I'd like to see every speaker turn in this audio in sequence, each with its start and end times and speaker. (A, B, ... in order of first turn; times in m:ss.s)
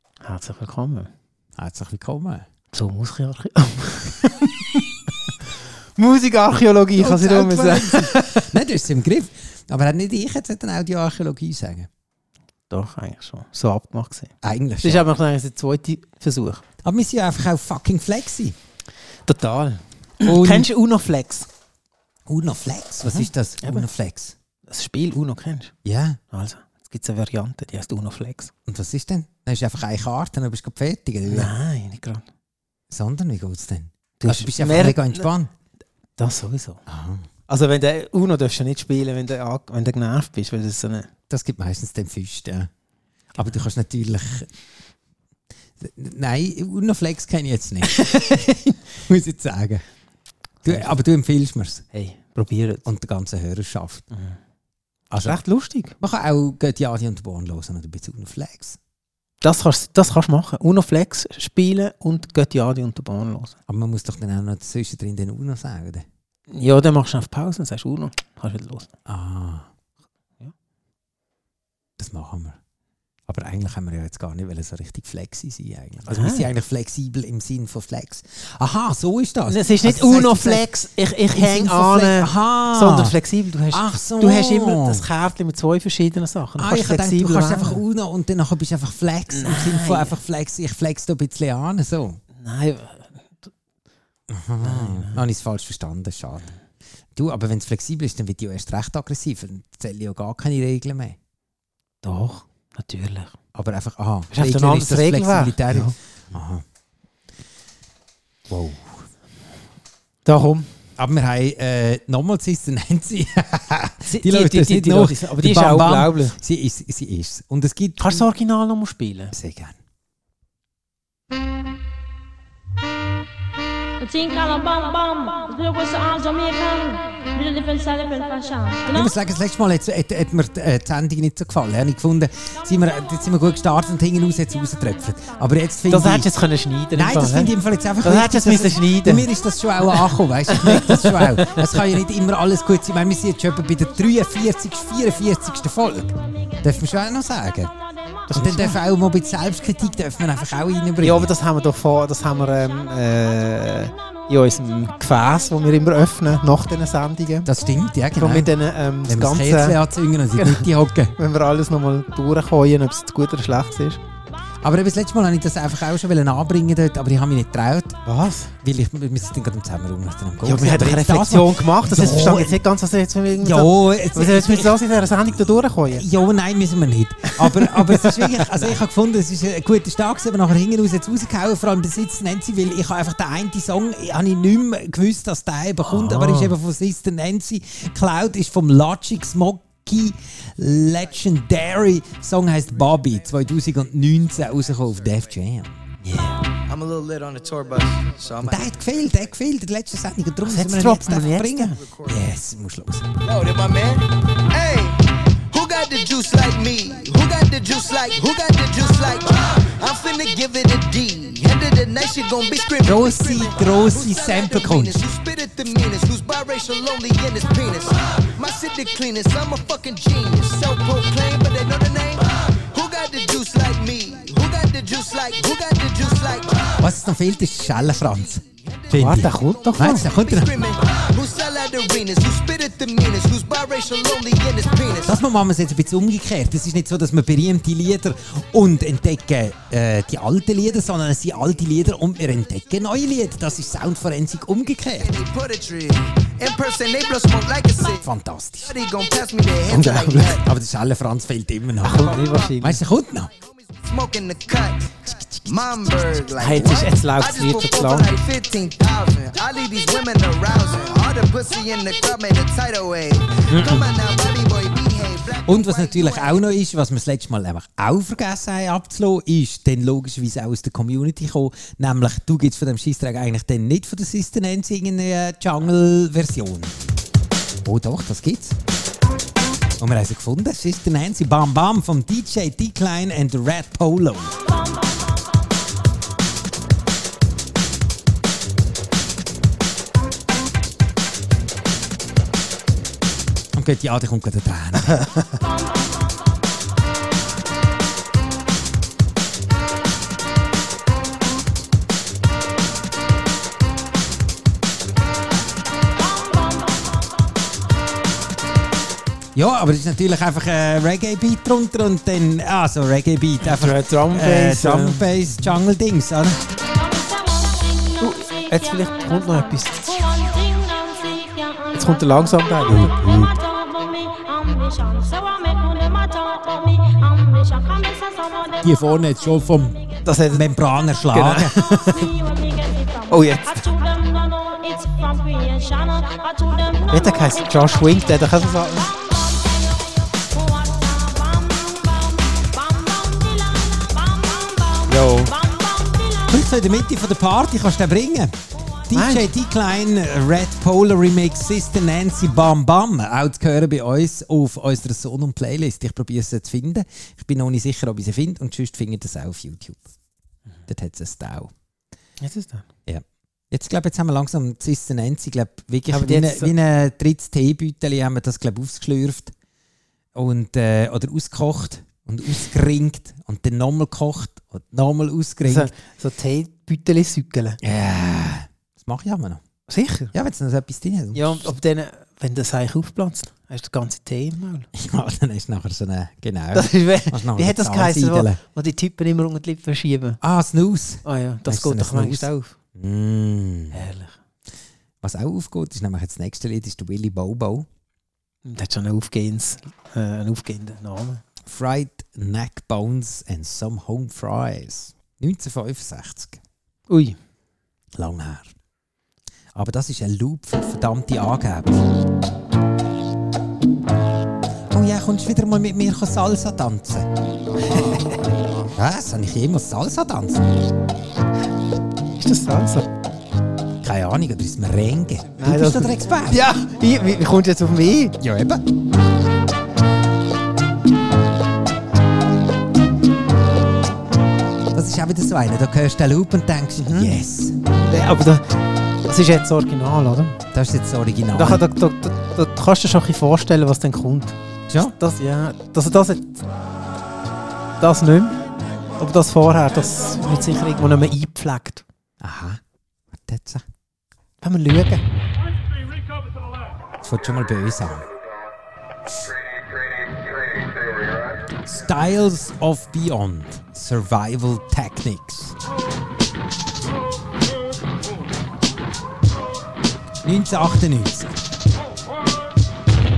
0:00.2-0:01.1 A
0:01.6-0:02.5 B
0:02.7-0:04.8 A
0:06.0-0:08.5 A
0:07.0-0:11.9 B
0:12.7-0:16.6 A
0:14.4-0:15.0 B
0:16.8-0:18.6 B
0:19.3-0:21.5 A
0:20.2-0:20.7 B
0:22.3-0:24.3 B
0:23.0-0:23.9 A
0:24.7-0:25.7 A
0:25.8-0:26.2 B
0:26.3-0:28.5 A
0:28.6-0:31.5 B
0:31.3-0:32.2 A
0:32.9-0:35.5 B
0:34.2-0:35.3 A
0:36.2-0:36.8 A
0:36.9-0:37.2 B
0:37.5-0:41.1 A
0:41.3-0:42.7 B
0:43.4-0:44.5 B
0:45.8-0:48.2 B
0:47.9-0:48.8 A
0:49.0-0:49.8 B
0:50.6-0:50.9 A
0:50.6-0:51.8 B
0:51.9-0:52.8 A
0:52.8-0:54.0 B
0:55.1-0:55.4 B
0:55.2-0:56.0 A
0:56.0-0:58.8 B
0:59.4-1:03.5 A
1:03.7-1:06.0 B
1:06.5-1:08.9 A
1:09.1-1:09.7 B
1:12.0-1:12.6 B
1:13.3-1:20.6 B
1:16.1-1:16.5 A
1:19.5-1:27.8 A
1:21.3-1:23.1 B
1:23.7-1:25.0 B
1:26.6-1:32.2 B
1:29.3-1:30.2 A
1:32.4-1:33.5 A
1:34.3-1:36.5 B
1:34.6-1:35.2 A
1:37.1-1:41.2 B
1:42.0-1:43.3 A
1:43.5-1:46.6 B
1:44.3-1:45.9 A
1:48.5-1:49.0 B
1:50.2-1:50.7 A
1:51.0-1:58.2 B
1:54.1-1:56.4 A
1:58.0-1:59.3 A
1:59.3-1:59.7 B
2:04.0-2:08.9 C
2:08.9-2:16.3 B
2:15.9-2:19.3 A
2:16.9-2:27.7 B
2:20.5-2:21.8 A
2:28.3-2:28.8 A
2:28.3-2:31.3 B
2:31.0-2:37.5 A
2:37.4-2:41.1 B
2:38.2-2:39.8 A
2:40.4-2:44.0 A
2:44.6-2:48.0 B
2:48.0-2:48.5 A
2:48.6-2:52.6 B
2:50.4-2:56.0 A
2:53.4-2:54.8 B
2:55.9-3:15.8 B
2:57.3-2:58.7 A
3:05.8-3:06.6 A
3:16.0-3:16.4 A
3:16.7-3:18.7 D
3:18.4-3:23.1 B
3:20.4-3:21.8 A
3:21.8-3:22.2 D
3:23.2-3:25.0 D
3:25.5-3:46.8 D
3:32.8-3:35.0 B
3:46.8-3:50.5 B
3:48.6-3:55.2 D
3:48.9-3:50.0 A
3:55.0-4:05.1 B
4:05.0-4:08.1 D
4:08.0-4:08.7 B
4:08.6-4:10.4 D
4:09.7-4:10.4 A
4:10.2-4:13.3 B
4:11.8-4:12.8 A
4:13.3-4:26.4 D
4:16.4-4:18.1 A
4:23.5-4:23.8 B
4:25.4-4:36.8 B
4:37.6-4:38.6 B
4:39.8-4:44.4 B
4:53.5-4:55.1 B
5:09.3-5:16.4 B
5:13.4-5:15.5 A
5:16.8-5:17.8 C
5:18.0-5:20.3 A
5:20.4-5:21.7 C
5:21.7-5:23.0 A
5:22.7-5:23.4 B
5:23.4-5:28.5 C
5:28.6-5:31.9 B
5:30.0-5:30.5 A
5:31.1-5:32.1 A
5:32.2-5:32.9 C
5:33.0-5:33.8 A
5:33.8-5:36.8 C
5:36.9-5:39.0 A
5:40.5-5:41.9 C
5:42.5-5:44.6 C
5:44.8-5:45.4 B
5:45.7-5:46.0 C
5:46.2-5:48.4 B
5:48.9-5:59.9 B
5:48.9-5:49.3 A
6:00.7-6:01.5 B
6:02.2-6:02.6 A
6:02.9-6:09.3 B
6:05.9-6:06.5 A
6:10.1-6:15.7 B
6:15.4-6:17.6 A
6:17.6-6:19.4 B
6:19.7-6:20.1 A
6:20.1-6:21.4 B
6:21.1-6:24.7 A
6:24.7-6:28.4 B
6:26.5-6:30.2 A
6:30.2-6:33.8 B
6:31.0-6:32.5 A
6:33.7-6:34.1 A
6:35.0-6:37.7 B
6:38.4-6:41.2 A
6:41.4-6:46.4 B
6:46.9-6:47.2 A
6:47.9-6:48.5 B
6:49.5-6:51.8 B
6:54.7-6:57.1 B
6:57.7-6:58.0 B
6:57.7-6:58.2 A
6:58.7-7:00.4 B
7:02.1-7:02.9 A
7:03.8-7:06.4 B
7:05.4-7:08.2 A
7:08.2-7:08.6 B
7:14.7-7:17.6 B
7:16.8-7:17.1 A
7:17.7-7:18.5 A
7:19.1-7:20.4 A
7:20.5-7:21.6 B
7:21.3-7:26.4 A
7:24.7-7:24.9 B
7:27.8-7:28.4 A
7:29.0-7:31.8 A
7:32.2-7:32.6 B
7:33.1-7:33.6 B
7:34.4-7:35.0 A
7:37.0-7:38.0 B
7:41.6-7:45.6 B
7:50.2-7:51.3 B